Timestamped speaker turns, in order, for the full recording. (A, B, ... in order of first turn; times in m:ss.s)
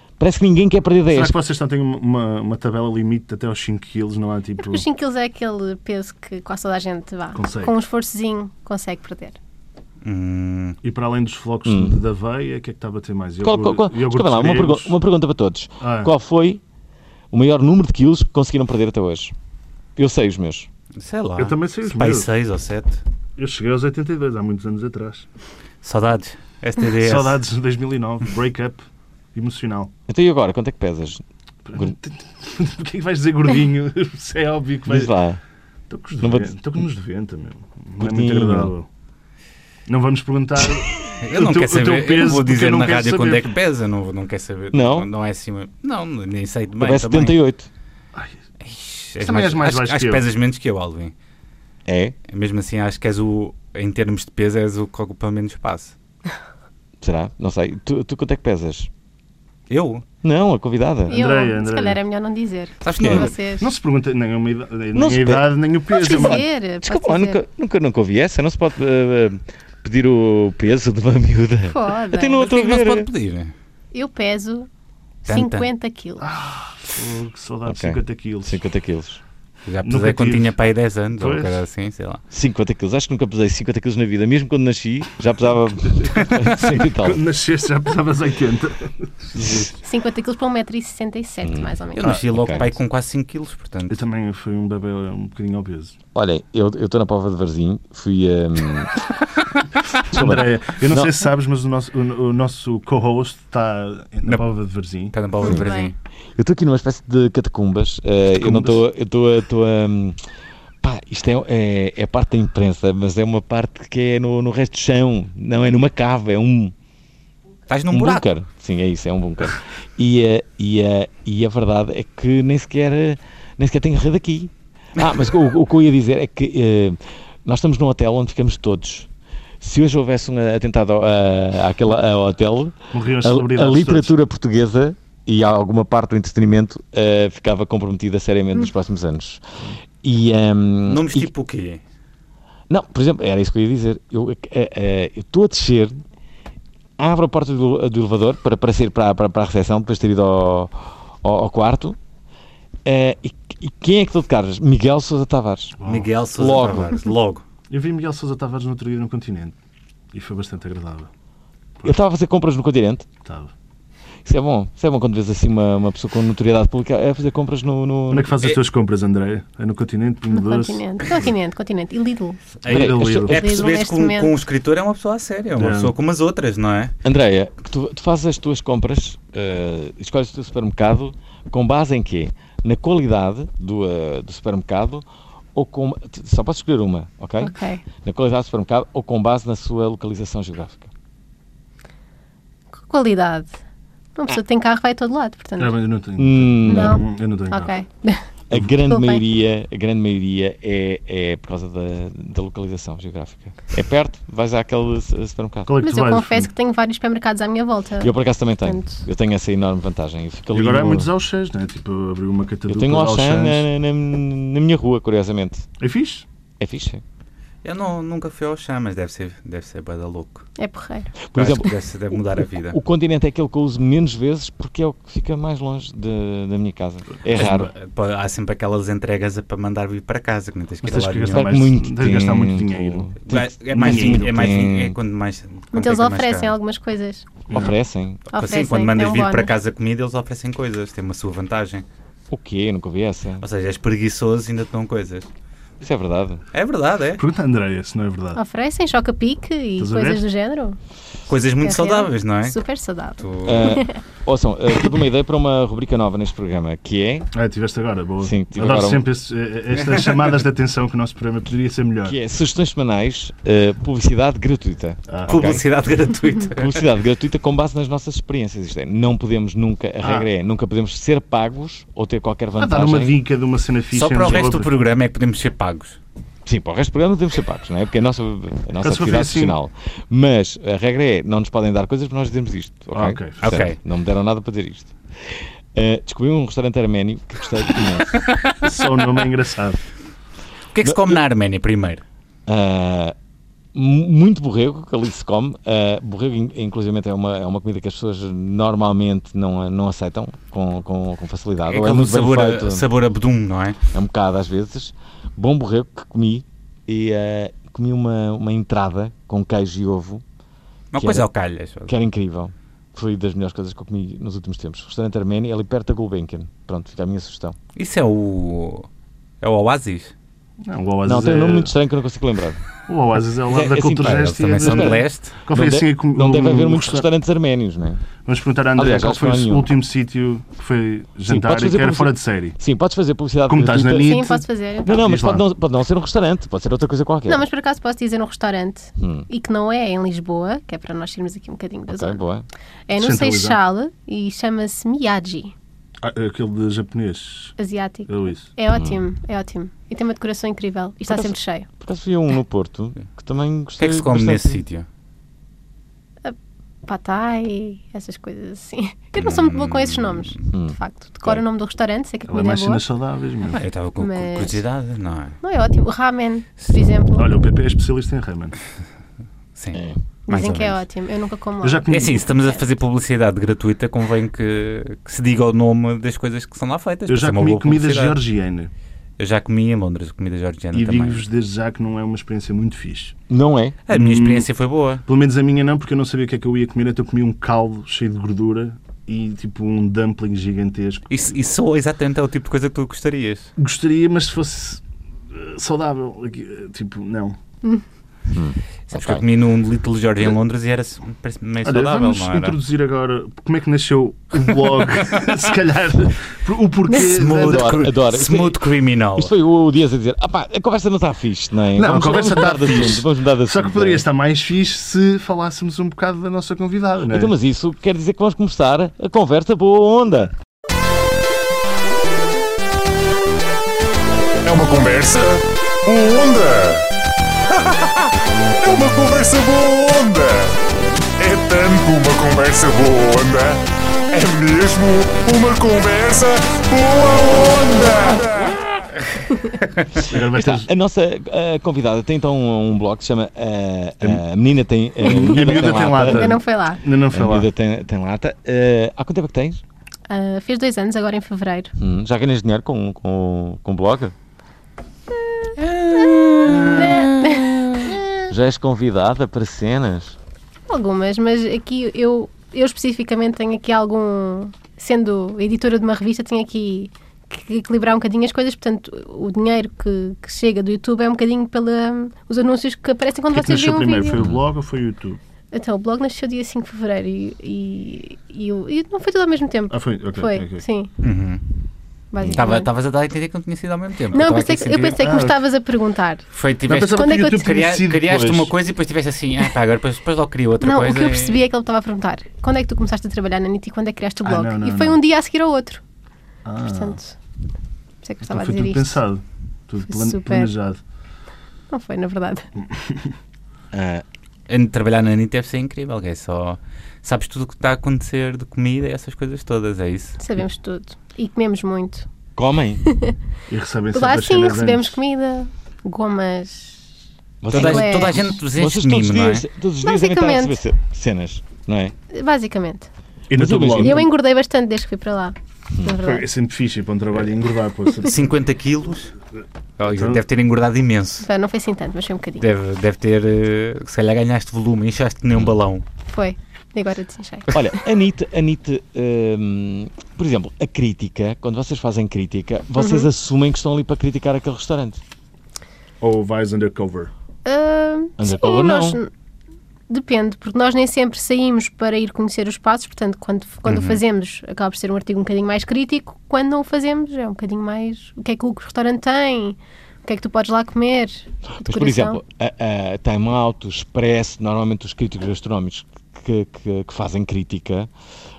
0:00.2-0:01.4 A
0:01.1-0:04.8 B
0:04.6-0:09.4 C
0:07.3-0:07.7 B
0:10.0-0:10.8 D
0:10.8-0:14.9 B
0:11.6-0:12.0 A
0:13.4-0:16.6 A
0:15.8-0:16.1 B
0:17.3-0:19.3 A
0:20.0-0:20.7 A
0:21.0-0:23.0 D
0:21.4-0:22.3 B
0:23.4-0:25.3 B
0:25.8-0:27.4 D
0:27.0-0:29.9 B
0:30.1-0:31.2 A
0:31.6-0:35.1 B
0:34.9-0:35.4 A
0:35.9-0:38.9 B
0:36.2-0:36.8 A
0:38.0-0:38.7 A
0:39.9-0:43.5 B
0:41.2-0:47.4 D
0:44.7-0:45.1 A
0:46.8-0:47.7 A
0:48.6-0:51.1 D
0:49.2-0:50.2 B
0:51.8-0:52.2 A
0:52.3-0:55.9 D
0:57.0-0:58.9 A
0:59.7-1:00.0 D
1:00.2-1:01.2 A
1:01.1-1:03.7 C
1:01.1-1:02.0 B
1:02.8-1:03.3 D
1:03.0-1:03.3 A
1:03.1-1:06.4 B
1:04.9-1:05.5 A
1:05.9-1:07.4 C
1:06.0-1:13.1 A
1:11.7-1:12.4 C
1:12.4-1:13.5 D
1:13.9-1:14.7 C
1:15.2-1:15.7 D
1:15.2-1:16.2 C
1:16.2-1:18.6 B
1:17.6-1:19.2 A
1:19.7-1:22.2 D
1:19.8-1:20.5 B
1:21.1-1:21.6 B
1:22.3-1:27.2 A
1:26.0-1:29.7 B
1:29.4-1:29.7 A
1:29.8-1:32.0 C
1:31.4-1:32.8 A
1:31.9-1:34.0 D
1:33.9-1:36.0 B
1:36.1-1:39.1 A
1:40.1-1:41.2 A
1:40.1-1:45.1 B
1:45.1-1:45.9 D
1:45.4-1:45.9 C
1:46.4-1:50.2 A
1:48.4-1:48.8 B
1:50.8-1:56.7 A
1:57.7-1:58.2 D
1:57.9-2:09.1 A
2:09.6-2:19.4 A
2:12.9-2:14.1 B
2:20.0-2:21.3 A
2:20.8-2:21.8 D
2:22.7-2:26.0 A
2:27.0-2:32.0 A
2:32.8-2:35.8 A
2:35.8-2:36.6 B
2:35.8-2:37.4 D
2:36.4-2:37.1 A
2:37.7-2:39.6 B
2:40.1-2:41.1 B
2:41.8-2:43.0 A
2:43.2-2:43.5 B
2:44.2-2:48.6 A
2:48.1-2:51.2 B
2:50.3-2:52.4 C
2:52.6-2:56.9 D
2:52.6-2:53.7 B
2:52.7-2:53.2 A
2:53.3-2:54.3 C
2:55.6-2:55.9 B
2:57.0-3:10.9 A
3:07.4-3:07.8 C
3:12.8-3:13.6 C
3:14.2-3:15.8 C
3:15.6-3:17.7 B
3:16.2-3:17.0 A
3:16.7-3:18.2 C
3:18.5-3:25.7 A
3:18.8-3:19.2 C
3:25.6-3:26.5 B
3:25.8-3:29.0 C
3:28.0-3:31.1 A
3:30.5-3:33.7 B
3:32.7-3:35.7 A
3:35.8-3:36.2 B
3:36.6-3:37.0 A
3:37.6-3:40.5 D
3:40.6-3:41.1 C
3:41.2-3:41.7 A
3:41.3-3:42.8 D
3:42.4-3:47.7 A
3:47.4-3:51.6 D
3:47.4-3:47.7 B
3:50.8-3:54.4 B
3:51.3-3:55.0 A
3:53.2-3:56.5 D
3:55.7-3:57.2 C
3:57.5-3:57.7 B
3:57.5-3:58.2 A
3:58.3-4:01.8 D
3:58.3-3:59.5 C
4:02.3-4:03.4 A
4:03.4-4:05.3 D
4:05.8-4:06.4 A
4:06.5-4:07.2 D
4:07.2-4:08.4 B
4:08.4-4:10.8 C
4:09.8-4:10.2 B
4:11.3-4:12.6 D
4:11.6-4:14.0 C
4:13.2-4:13.8 D
4:13.4-4:17.3 A
4:17.3-4:22.2 B
4:18.2-4:19.1 A
4:22.0-4:25.6 A
4:25.1-4:25.6 B
4:25.3-4:26.8 D
4:26.5-4:33.2 A
4:30.0-4:30.3 B
4:32.6-4:34.7 B
4:33.9-4:36.0 D
4:36.4-4:48.3 A
4:38.8-4:39.5 B
4:42.9-4:43.4 B
4:43.4-4:43.8 D
4:48.2-4:48.8 D
4:48.6-4:49.8 B
4:50.7-4:52.0 D
4:50.8-4:51.2 A
4:52.5-4:53.1 A
4:53.7-5:02.8 A
5:01.7-5:03.8 D
5:03.9-5:10.2 A
5:10.9-5:11.9 D
5:11.0-5:11.3 A
5:11.9-5:17.6 A
5:17.8-5:18.9 D
5:19.4-5:20.1 D
5:20.6-5:21.7 B
5:21.0-5:22.6 A
5:22.9-5:27.0 B
5:23.4-5:28.0 A
5:24.0-5:25.4 D
5:28.2-5:32.6 B
5:28.8-5:29.7 A
5:31.2-5:34.2 A
5:33.5-5:35.4 B
5:34.0-5:35.0 C
5:34.8-5:37.4 A
5:37.3-5:42.2 C
5:39.0-5:39.3 A
5:41.9-5:42.4 A
5:42.9-5:45.5 C
5:43.0-5:43.6 B
5:46.0-5:47.6 B
5:47.6-5:51.7 C
5:48.1-5:48.5 B
5:48.7-5:49.0 A
5:51.1-5:54.6 A
5:53.8-5:54.8 D
5:56.2-6:02.8 C
5:59.2-6:00.4 D
6:00.5-6:01.4 A
6:02.3-6:03.6 B
6:03.4-6:05.4 D
6:04.0-6:04.6 C
6:05.4-6:07.3 C
6:07.2-6:08.6 B
6:09.6-6:10.8 D
6:09.7-6:10.0 A
6:10.3-6:12.6 C
6:11.6-6:12.3 B
6:11.9-6:18.2 D
6:17.1-6:18.7 B
6:19.2-6:21.2 D
6:20.7-6:23.1 B
6:23.3-6:23.8 A
6:23.9-6:25.0 D
6:23.9-6:24.5 B
6:25.1-6:31.2 B
6:31.1-6:33.5 D
6:33.6-6:37.4 B
6:38.3-6:39.2 A
6:38.9-6:42.6 D
6:41.6-6:47.9 B
6:46.9-6:49.3 D
6:47.4-6:48.6 A
6:49.2-6:54.0 A
6:51.7-6:57.3 B
6:57.0-7:00.3 A
7:04.4-7:06.8 E
7:07.5-7:08.1 E
7:08.6-7:10.6 E
7:11.2-7:18.6 E
7:20.0-7:20.7 B
7:20.1-7:26.3 A
7:25.0-7:27.5 B
7:25.5-7:26.8 C
7:27.1-7:29.6 A
7:30.1-7:31.7 C
7:31.8-7:34.1 A
7:35.6-7:37.0 D
7:35.9-7:37.5 C
7:36.4-7:36.9 B
7:38.3-7:40.2 A
7:40.7-7:54.2 C
7:53.3-7:55.2 B
7:54.2-7:54.4 A
7:55.5-8:00.9 C
7:59.7-8:00.6 B
8:01.0-8:01.4 D
8:02.1-8:02.7 C
8:02.3-8:05.0 D
8:04.1-8:06.2 C
8:05.0-8:05.4 B
8:06.3-8:11.4 D
8:06.7-8:08.5 B
8:06.9-8:07.5 C
8:10.6-8:15.8 C
8:14.2-8:15.0 B
8:16.4-8:17.0 B
8:16.6-8:17.2 C
8:18.0-8:19.0 C
8:18.2-8:20.8 B
8:19.9-8:20.5 C
8:21.7-8:22.5 C
8:22.7-8:23.1 B
8:23.7-8:24.0 A
8:24.5-8:30.2 D
8:30.2-8:32.0 C
8:32.4-8:32.8 A
8:32.8-8:33.2 C
8:33.5-8:35.0 B
8:33.9-8:36.9 C
8:37.4-8:41.9 A
8:37.5-8:38.3 C
8:37.5-8:39.4 D
8:39.8-8:40.6 C
8:42.1-8:42.9 C
8:43.3-8:44.1 B
8:43.3-8:44.0 A
8:43.8-8:46.2 C
8:46.0-8:48.2 B
8:48.0-8:49.1 D
8:49.8-8:51.3 D
8:49.9-8:50.2 B
8:51.2-8:52.4 C
8:52.4-8:55.8 D
8:56.0-8:57.6 C
8:57.5-9:05.0 A
9:02.8-9:03.1 C
9:06.0-9:07.1 B
9:07.4-9:09.1 C
9:08.2-9:09.0 A
9:09.9-9:22.2 C
9:13.6-9:14.0 D
9:21.6-9:27.9 A